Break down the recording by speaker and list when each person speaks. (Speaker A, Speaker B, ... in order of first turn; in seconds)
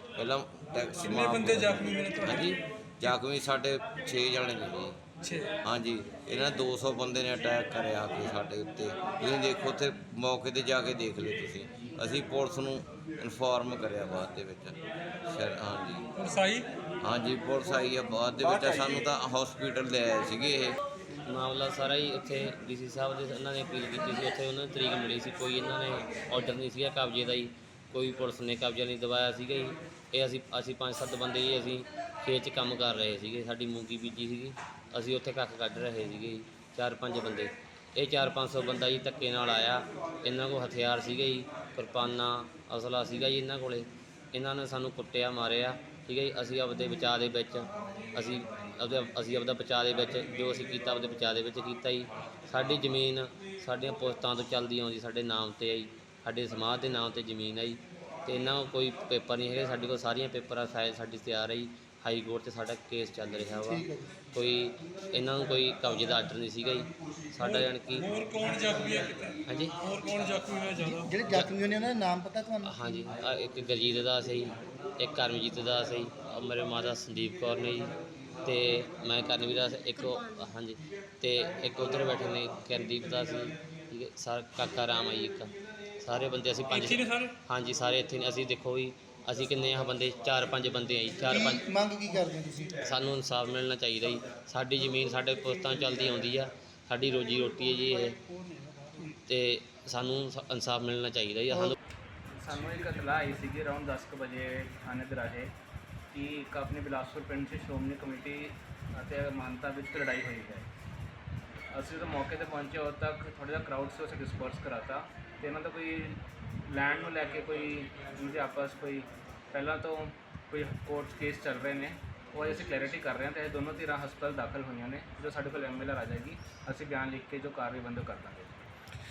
Speaker A: 0.1-5.0, 5.6-14.8, 15.3-16.1, 17.0-20.8
Speaker B: 1.0-2.5, 5.2-5.5, 16.2-16.7, 18.4-19.0, 67.4-71.1, 86.7-87.3, 98.1-99.2
Speaker C: 21.2-68.0, 69.5-69.7, 72.6-77.9, 78.5-91.6, 92.8-98.2, 99.2-101.7
Speaker D: 63.6-64.1, 70.8-73.0, 91.3-92.7
Speaker E: 102.3-105.5, 106.1-110.7, 111.7-128.7